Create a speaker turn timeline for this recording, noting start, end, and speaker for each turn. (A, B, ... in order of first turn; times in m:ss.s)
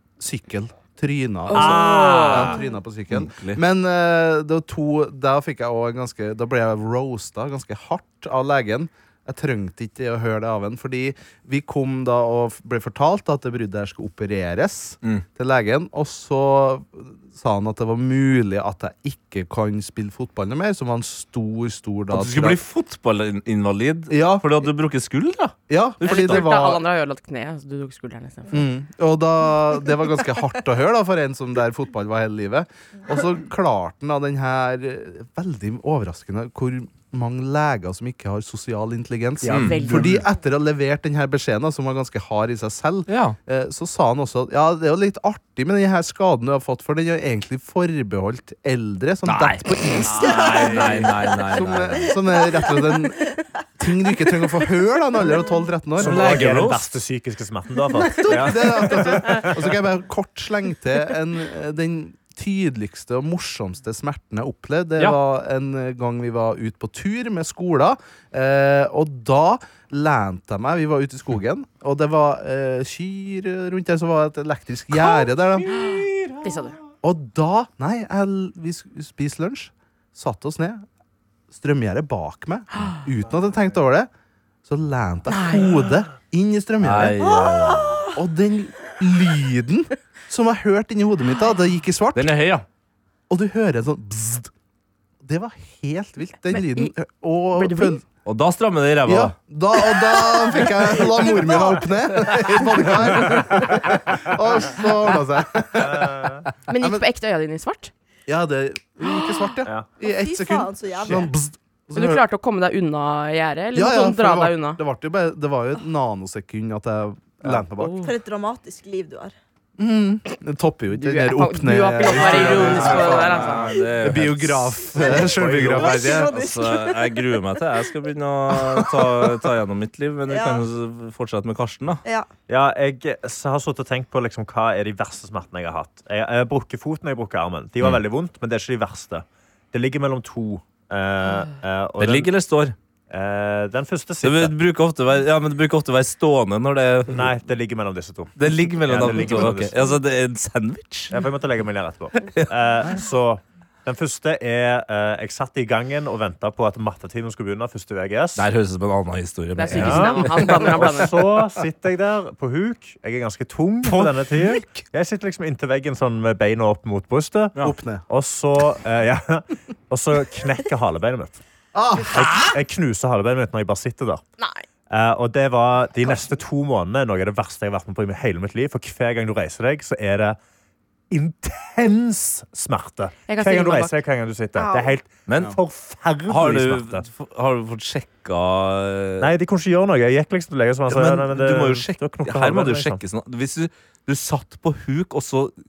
0:00.2-0:22.6 A
0:01.5-0:02.6 B
0:02.4-0:02.8 C
0:03.1-0:03.6 D
0:22.1-0:26.5 D
0:24.1-0:24.6 A
0:25.7-0:26.8 A
0:26.0-0:28.6 E
0:28.5-0:56.7 A
0:39.4-0:39.8 B
0:39.4-0:40.1 D
0:39.5-0:40.2 E
0:43.1-0:43.4 D
0:49.2-0:52.1 D
0:50.2-0:53.0 C
0:54.1-0:54.6 C
0:56.0-0:59.6 B
0:56.0-0:56.8 D
0:58.0-1:15.8 A
1:15.7-1:16.5 D
1:16.4-1:16.8 E
1:17.0-1:20.8 A
1:21.5-1:24.1 A
1:24.6-1:27.3 A
1:25.3-1:25.6 E
1:26.8-1:28.0 D
1:27.3-1:28.1 C
1:28.1-1:32.3 A
1:32.1-1:32.6 D
1:33.3-1:34.5 A
1:35.2-1:38.0 A
1:36.5-1:36.9 E
1:37.5-1:38.0 E
1:38.2-1:39.4 D
1:39.0-1:47.0 A
1:45.8-1:46.4 B
1:46.7-1:47.9 E
1:48.3-1:52.2 A
1:49.0-1:49.4 E
1:50.0-1:51.4 C
1:51.9-1:54.8 E
1:53.7-1:58.0 A
1:57.8-1:58.1 E
1:57.9-1:59.3 C
1:59.8-2:06.4 A
2:00.9-2:03.7 E
2:02.0-2:12.0 D
2:05.0-2:07.4 C
2:08.6-2:09.3 A
2:10.3-2:10.6 C
2:12.5-2:22.3 B
2:22.0-2:22.7 D
2:23.1-2:24.5 B
2:24.2-2:27.3 D
2:27.1-2:29.7 B
2:28.4-2:31.2 D
2:31.1-2:38.5 B
2:38.4-2:40.6 D
2:39.6-2:41.1 E
2:39.7-2:51.4 B
2:43.8-2:44.8 D
2:47.6-2:48.0 A
2:51.7-2:52.4 A
2:52.1-2:54.2 B
2:54.4-2:54.6 E
2:54.9-3:00.4 B
3:01.1-3:07.0 B
3:03.3-3:04.0 E
3:04.6-3:04.9 C
3:05.3-3:05.6 D
3:06.3-3:09.3 D
3:09.2-3:13.0 B
3:10.9-3:15.5 D